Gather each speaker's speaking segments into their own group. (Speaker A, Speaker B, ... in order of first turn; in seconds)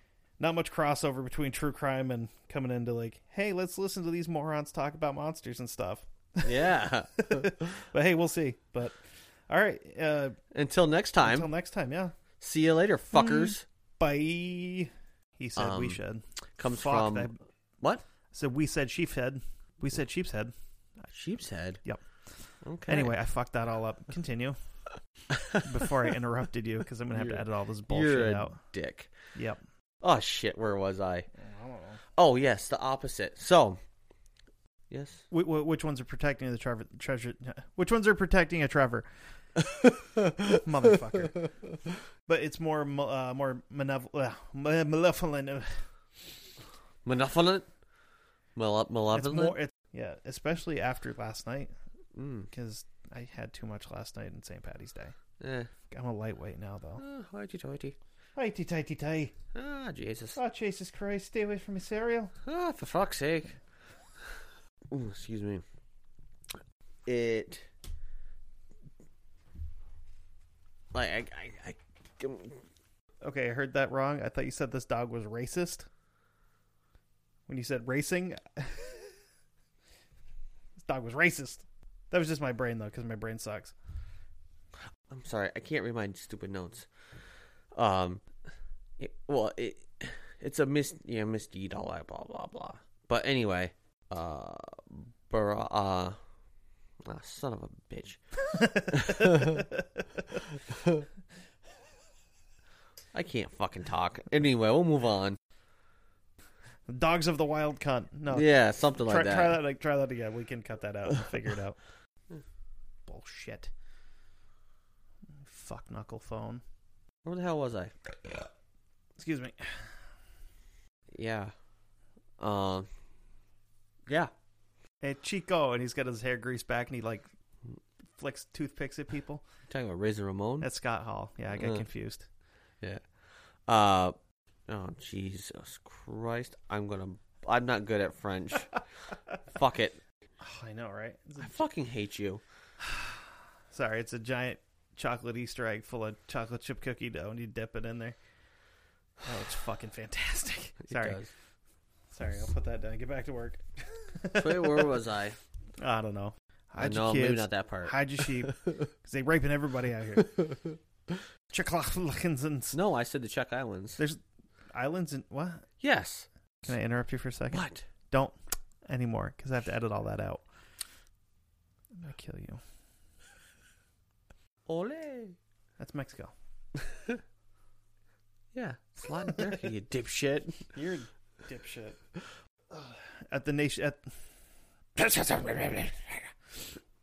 Speaker A: 0.4-6.5, 7.2-10.4, 11.2-12.2, 13.1-17.4, 18.3-20.5, 22.9-24.6, 25.6-28.6, 29.4-29.6, 31.4-32.0, 35.3-39.1, 40.5-41.4, 42.3-45.9, 49.1-51.7, 52.5-55.2, 55.9-57.0, 58.4-59.3, 60.4-62.3, 73.2-75.9, 77.5-79.1, 80.8-83.8, 98.5-100.2, 106.9-108.5, 109.0-111.8, 113.1-113.7, 115.5-116.6, 119.2-119.9, 125.0-127.3, 128.2-129.4, 130.6-132.3, 140.4-141.5, 142.8-148.2, 149.2-151.2, 152.1-154.9, 155.8-160.3, 161.5-162.8, 164.7-165.7, 166.7-168.4, 168.9-170.4, 171.9-172.6, 175.8-176.3, 180.7-182.0, 182.7-184.0
Speaker B: 6.4-7.8, 10.5-11.5, 12.4-13.6, 15.6-16.0, 16.6-17.3, 21.1-21.8, 22.6-23.1, 25.3-25.7, 27.1-29.1, 30.0-31.3, 32.2-33.8, 34.9-35.3, 39.6-41.1, 47.0-47.7, 48.5-49.5, 52.1-52.5, 55.4-55.7, 57.0-58.0, 59.5-60.4, 62.4-63.6, 64.9-65.6, 67.1-67.7, 70.9-72.6, 85.1-86.9, 87.7-88.2, 89.0-96.2, 97.0-98.2, 98.7-99.7, 100.5-101.1, 103.1-105.4, 108.3-109.6, 117.2-118.1, 121.1-121.5, 122.4-122.9, 129.7-130.7, 131.6-131.8, 133.7-134.2, 134.7-138.8, 139.4-140.0, 141.4-142.4, 150.9-151.3, 154.3-155.4, 156.8-158.9, 160.2-161.2, 162.7-164.0, 165.8-166.7, 167.5-167.9, 174.7-175.4, 176.8-177.2, 178.5-180.7, 185.0-186.3